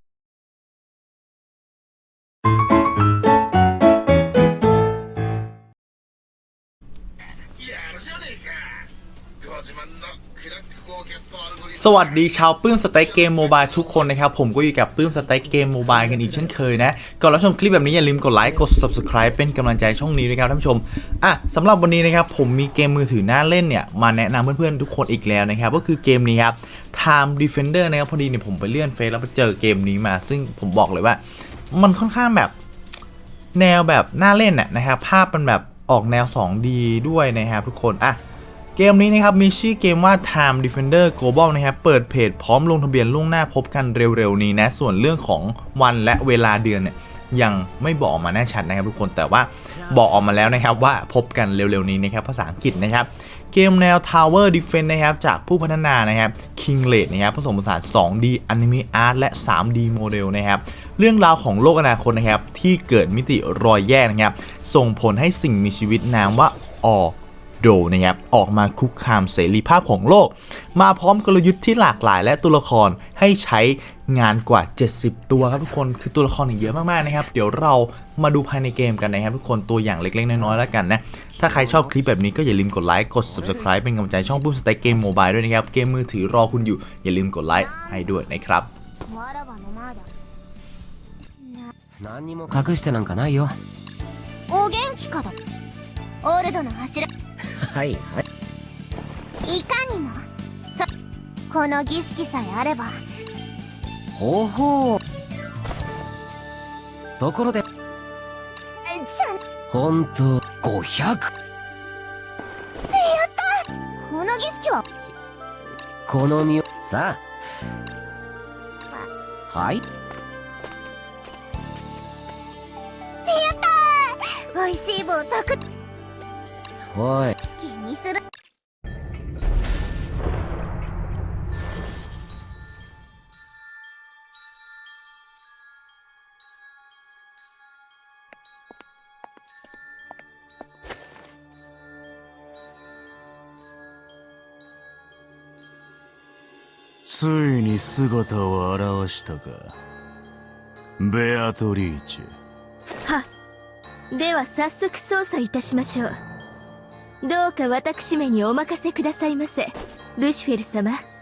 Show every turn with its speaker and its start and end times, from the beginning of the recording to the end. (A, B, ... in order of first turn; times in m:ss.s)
0:11.7-0:32.5 A
0:33.5-0:38.2 A
0:38.8-1:28.7 A
1:21.4-1:21.9 B
1:23.2-1:23.7 B
1:27.6-1:28.1 C
1:29.1-1:30.1 C
1:31.4-1:31.7 C
1:32.0-1:33.6 B
1:34.5-1:35.3 C
1:36.2-1:37.1 C
1:37.6-1:38.2 B
1:39.4-1:40.9 C
1:41.5-1:43.0 C
1:44.2-1:45.0 B
1:47.2-1:47.6 B
1:48.8-1:49.4 C
1:49.7-1:51.3 B
1:52.9-1:54.8 C
1:56.0-1:57.2 B
1:59.5-1:59.8 B
2:03.2-2:05.6 C
2:06.9-2:07.4 B
2:07.5-2:08.2 C
2:27.0-2:29.8 D
2:31.0-2:32.3 D
2:34.1-2:36.2 E
2:37.2-2:41.0 E